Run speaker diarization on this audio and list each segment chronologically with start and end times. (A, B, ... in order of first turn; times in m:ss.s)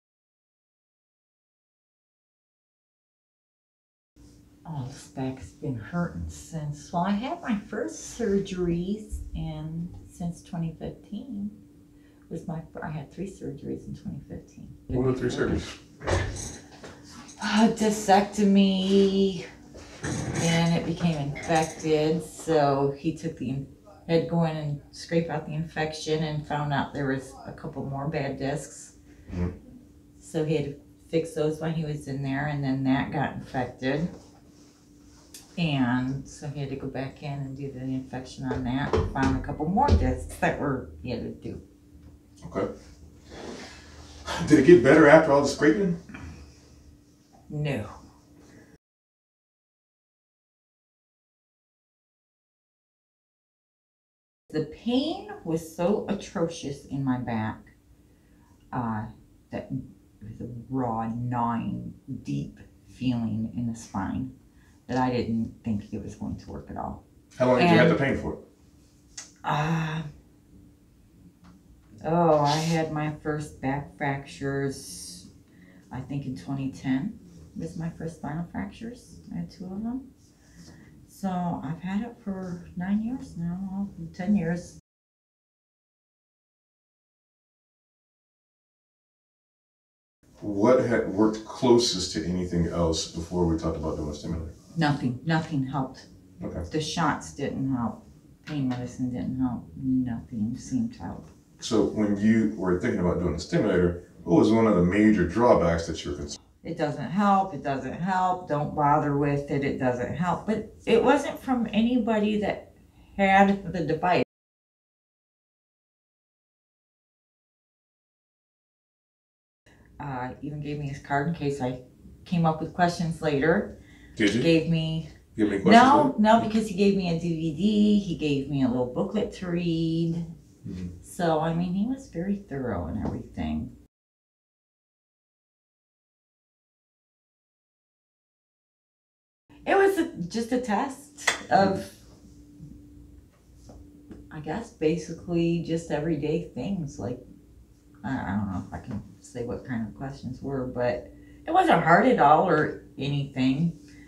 0:04.6-0:11.6 A
0:12.3-0:15.6 A
0:14.9-0:15.8 B
0:17.4-0:19.4 A
0:20.4-0:29.0 A
0:30.2-0:34.1 A
0:35.6-0:41.6 A
0:42.4-0:42.7 B
0:44.3-0:46.0 B
0:47.5-0:48.0 A
0:54.5-0:57.7 A
0:58.7-1:04.3 A
1:04.9-1:07.0 A
1:07.4-1:08.4 B
1:07.6-1:08.0 A
1:09.4-1:10.1 A
1:12.0-1:15.3 A
1:15.9-1:20.0 A
1:21.1-1:24.8 A
1:30.4-1:34.5 B
1:34.8-1:36.1 A
1:36.4-1:36.7 B
1:36.7-1:41.3 A
1:41.6-1:46.4 B
1:46.6-1:54.2 A
2:00.0-2:03.7 A
2:04.2-2:04.5 B
2:04.3-2:05.1 A
2:05.4-2:06.2 B
2:05.6-2:10.3 A
2:10.6-2:10.9 B
2:11.0-2:13.7 A
2:19.7-2:21.9 A
2:24.3-2:27.2 A
2:28.0-2:33.8 A